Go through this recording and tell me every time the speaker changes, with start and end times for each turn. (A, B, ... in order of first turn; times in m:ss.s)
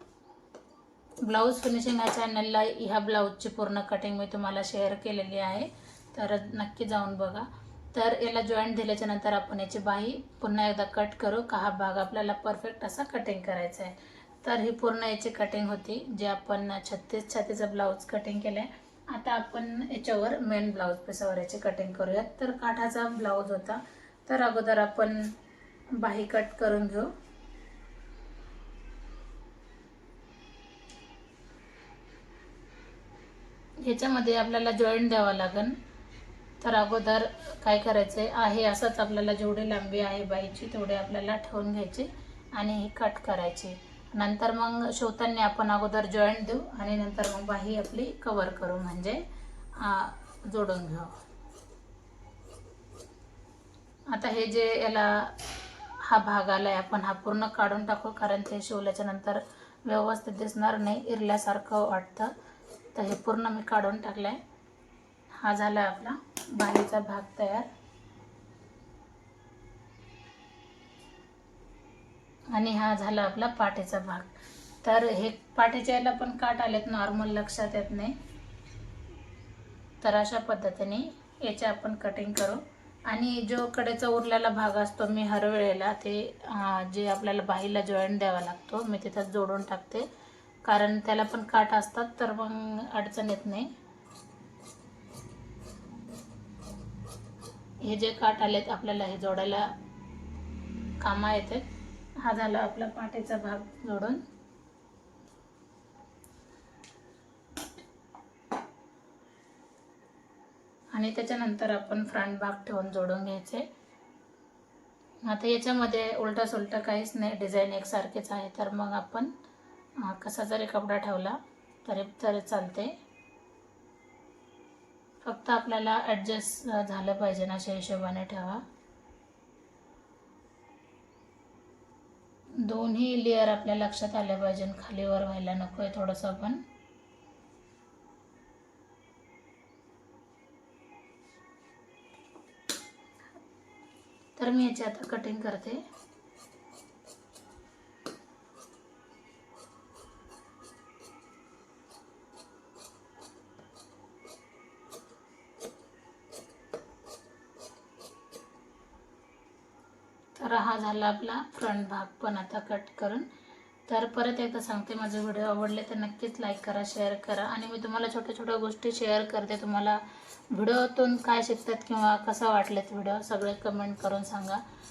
0:01.2-0:25.3 A
0:26.0-0:27.1 A
0:33.8-0:35.8 A
0:36.6-0:49.2 A
0:49.8-0:51.1 A
0:54.1-1:02.3 A
1:02.9-1:04.4 A
1:05.4-1:07.7 A
1:12.5-1:18.2 A
1:20.0-1:30.1 A
1:30.6-1:33.7 A
1:37.8-1:39.7 A
1:41.0-1:41.6 A
1:42.2-1:44.2 A
1:50.9-1:53.7 A
1:55.2-1:59.3 A
2:00.0-2:02.9 A
2:05.2-2:08.6 A
2:12.6-2:16.6 A
2:24.4-2:25.8 A
2:40.4-2:43.3 A
2:43.9-2:50.0 A
2:50.5-2:54.6 A